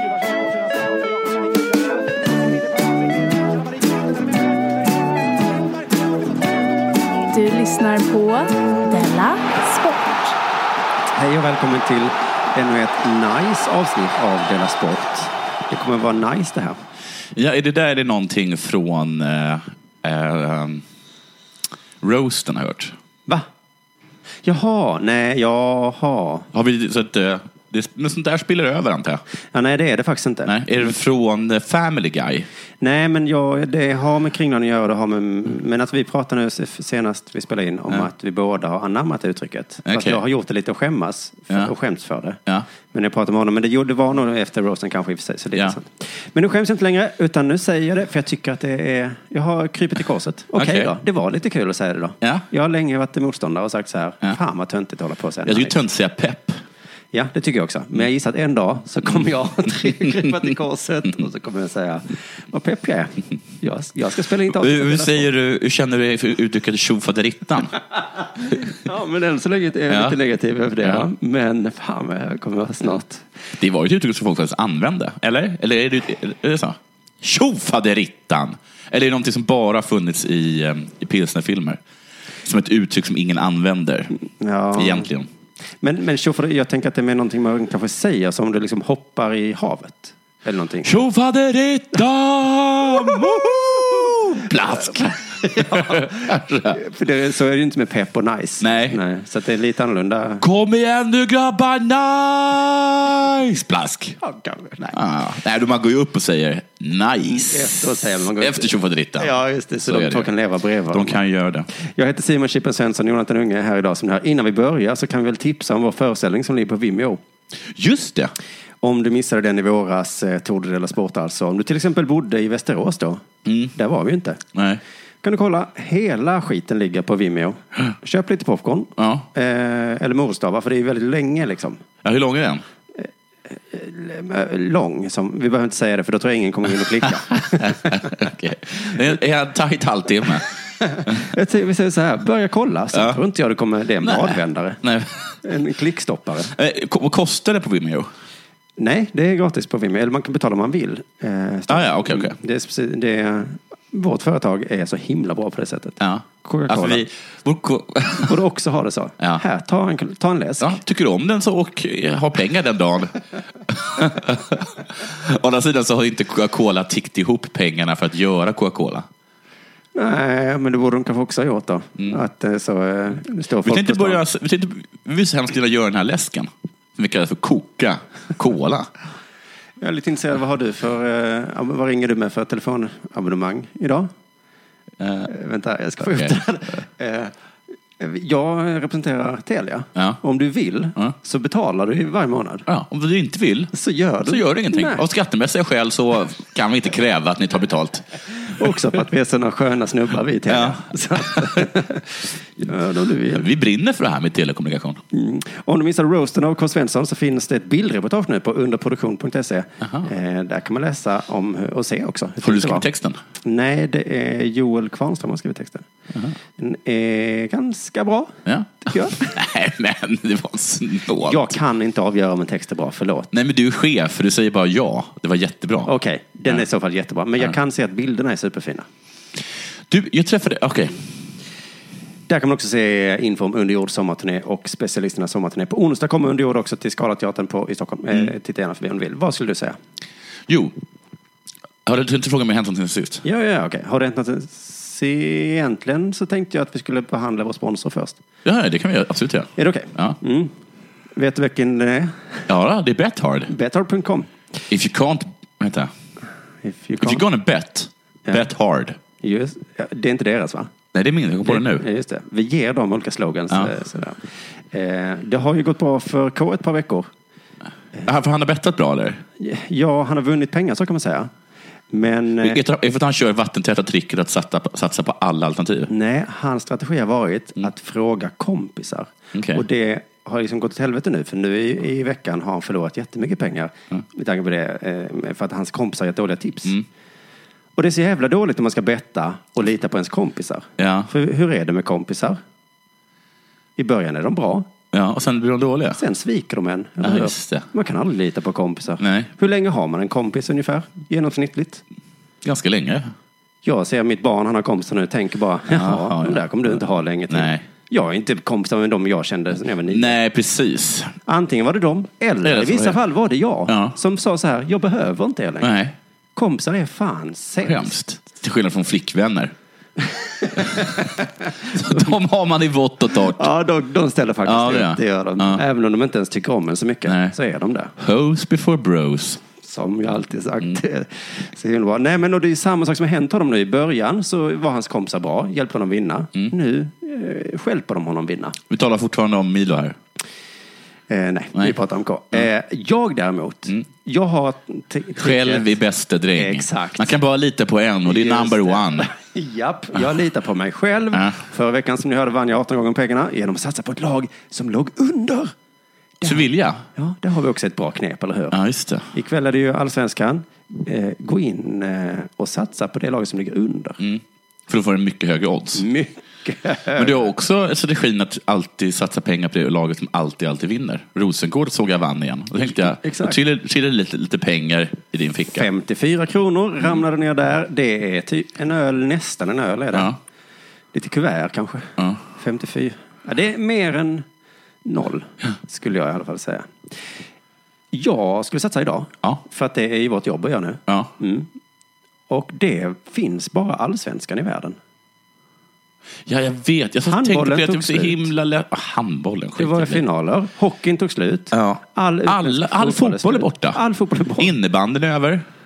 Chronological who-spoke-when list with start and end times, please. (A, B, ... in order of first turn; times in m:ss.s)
0:07.3-0:10.4 A
0:11.1-0:16.8 B
0:17.3-0:20.8 C
0:22.0-0:22.9 C
0:24.4-0:26.5 B
0:26.5-0:29.2 C
0:29.5-0:30.5 B
0:30.4-0:32.5 C
0:32.8-0:55.7 B
0:39.8-0:40.2 C
0:50.5-0:50.9 C
0:55.4-0:56.6 C
0:57.1-1:05.3 B
1:04.4-1:07.8 C
1:08.4-1:13.2 B
1:09.9-1:10.2 C
1:13.6-1:21.8 C
1:22.4-1:24.1 C
1:24.4-1:25.1 B
1:24.8-1:25.3 C
1:25.8-1:31.0 B
1:30.8-1:36.8 C
1:34.6-1:40.4 B
1:38.6-1:39.0 C
1:40.4-1:44.2 C
1:44.2-1:45.0 B
1:44.8-1:49.3 C
1:47.3-1:51.2 B
1:49.8-1:50.3 C
1:50.9-1:51.7 C
1:51.7-1:57.2 B
1:57.7-1:58.3 C
1:58.8-2:04.4 B
2:03.4-2:03.7 C
2:04.5-2:04.8 C
2:05.2-2:11.8 B
2:09.0-2:09.3 C
2:12.0-2:12.6 C
2:12.9-2:18.1 B
2:17.0-2:20.5 C
2:20.8-2:24.8 B
2:24.0-2:25.4 C
2:25.4-2:26.5 B
2:26.5-2:28.1 C
2:28.8-2:37.0 B
2:31.7-2:32.4 C
2:36.0-2:38.3 C
2:38.2-2:40.8 B
2:40.6-2:49.1 C
2:49.9-2:54.2 B
2:53.6-2:58.9 C
2:59.8-3:04.1 B
3:05.0-3:05.3 C
3:05.2-3:07.3 B
3:06.0-3:06.4 C
3:08.0-3:12.7 B
3:12.7-3:13.7 C
3:13.7-3:15.0 B
3:14.2-3:18.2 C
3:18.4-3:23.5 B
3:20.5-3:21.7 C
3:23.2-3:25.0 C
3:25.1-3:32.9 B
3:29.8-3:30.1 C
3:32.4-3:33.2 C
3:33.4-3:35.9 B
3:36.6-3:39.3 B
3:38.4-3:41.5 C
3:41.2-3:43.3 B
3:43.3-3:45.9 C
3:45.8-3:48.9 B
3:49.9-3:51.0 C
3:52.3-3:59.8 B
4:00.5-4:00.7 C
4:01.8-4:03.2 C
4:03.2-4:08.2 B
4:08.4-4:10.2 C
4:09.6-4:10.5 B
4:11.1-4:12.4 B
4:12.5-4:13.5 C
4:13.5-4:14.3 B
4:14.7-4:15.9 C
4:16.6-4:17.2 B
4:17.0-4:19.0 C
4:19.2-4:20.7 B
4:20.9-4:21.8 C
4:21.4-4:27.1 B
4:28.0-4:29.2 C
4:29.4-4:31.3 B
4:31.9-4:32.6 B
4:32.4-4:35.9 C
4:35.9-4:46.8 B
4:39.3-4:39.6 C
4:47.8-4:52.4 B
4:50.8-4:51.1 C
4:53.8-4:54.7 B
4:54.9-4:56.0 C
4:55.9-5:01.8 B
4:57.0-4:57.7 C
4:59.0-4:59.3 C
5:02.4-5:03.1 C
5:03.6-5:10.1 B
5:05.7-5:06.8 C
5:07.3-5:07.6 C
5:09.9-5:11.1 C
5:11.2-5:15.7 B
5:12.4-5:13.0 C
5:13.7-5:13.9 C
5:15.6-5:15.9 C
5:16.3-5:17.9 B
5:17.6-5:19.5 C
5:20.1-5:21.2 B
5:20.7-5:21.0 C
5:21.6-5:23.5 C
5:23.3-5:27.9 B
5:24.4-5:25.6 C
5:27.0-5:27.3 C
5:28.0-5:29.4 C
5:29.6-5:38.6 B
5:38.7-5:40.0 C
5:41.1-5:45.7 B
5:45.2-5:49.1 C
5:46.4-5:47.2 B
5:48.1-5:55.5 B
5:56.2-5:58.6 B
5:56.2-5:56.8 C
5:58.5-5:59.1 C
5:59.1-6:04.0 B
6:04.0-6:05.8 C
6:05.8-6:07.2 B
6:06.9-6:15.7 C
6:13.0-6:13.4 B
6:15.5-6:20.1 B
6:20.9-6:24.2 B
6:24.8-6:26.7 B
6:27.9-6:31.5 B
6:32.3-6:34.8 B
6:36.2-6:40.0 C
6:37.1-6:38.3 B
6:39.6-6:44.5 B
6:41.5-6:43.8 C
6:44.4-6:45.4 C